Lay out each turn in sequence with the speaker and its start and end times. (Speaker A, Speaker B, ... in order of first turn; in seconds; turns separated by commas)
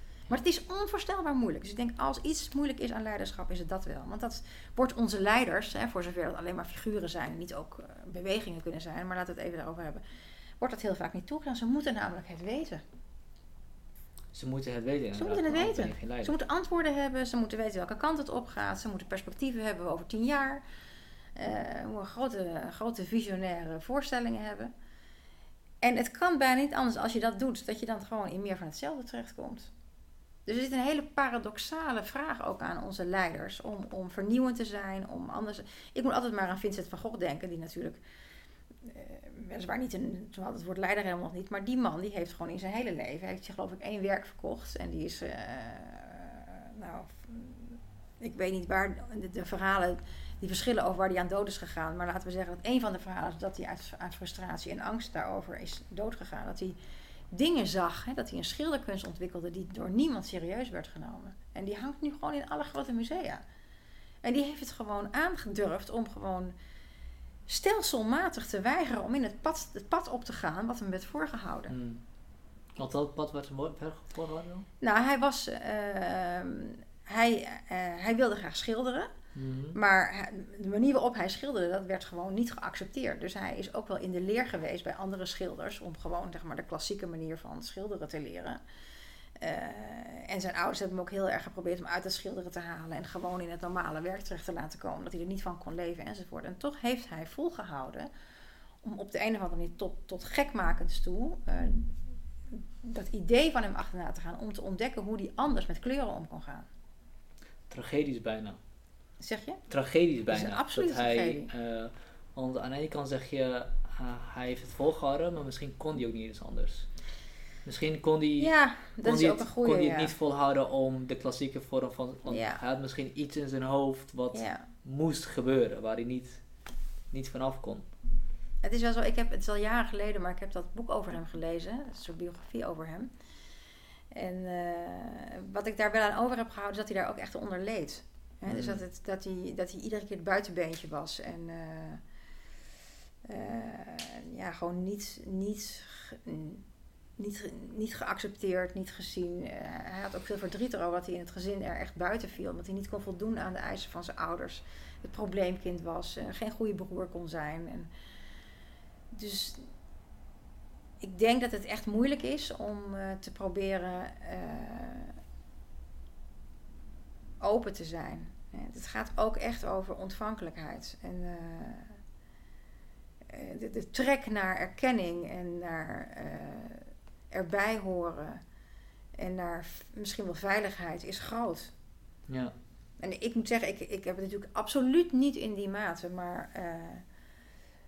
Speaker A: 0.3-10.0, Speaker A: 10.6-12.8, Speaker B: 14.3-16.3, Speaker A: 15.2-20.6, Speaker A: 21.4-24.7, Speaker A: 25.8-29.7, Speaker A: 30.5-38.0, Speaker A: 38.9-56.8, Speaker A: 57.3-63.4, Speaker A: 64.2-66.5, Speaker A: 67.5-71.7, Speaker B: 71.7-72.0, Speaker B: 72.8-74.7, Speaker A: 74.8-79.1, Speaker B: 79.3-79.8, Speaker A: 79.7-88.6, Speaker A: 89.4-98.1, Speaker A: 98.8-101.9, Speaker A: 102.5-106.7, Speaker B: 107.7-108.6, Speaker A: 109.2-109.6, Speaker B: 109.7-116.9, Speaker A: 110.3-111.5, Speaker B: 117.7-126.4, Speaker A: 118.4-120.1, Speaker A: 122.3-122.6, Speaker A: 124.3-124.7, Speaker B: 127.1-127.8, Speaker A: 128.6-133.1, Speaker A: 134.1-142.0, Speaker B: 138.5-138.8, Speaker A: 143.2-146.6, Speaker A: 147.2-157.9, Speaker A: 159.1-159.6, Speaker A: 161.0-165.2, Speaker A: 167.4-172.0, Speaker A: 173.3-178.4, Speaker A: 179.2-181.7, Speaker B: 182.3-182.5, Speaker A: 183.0-187.0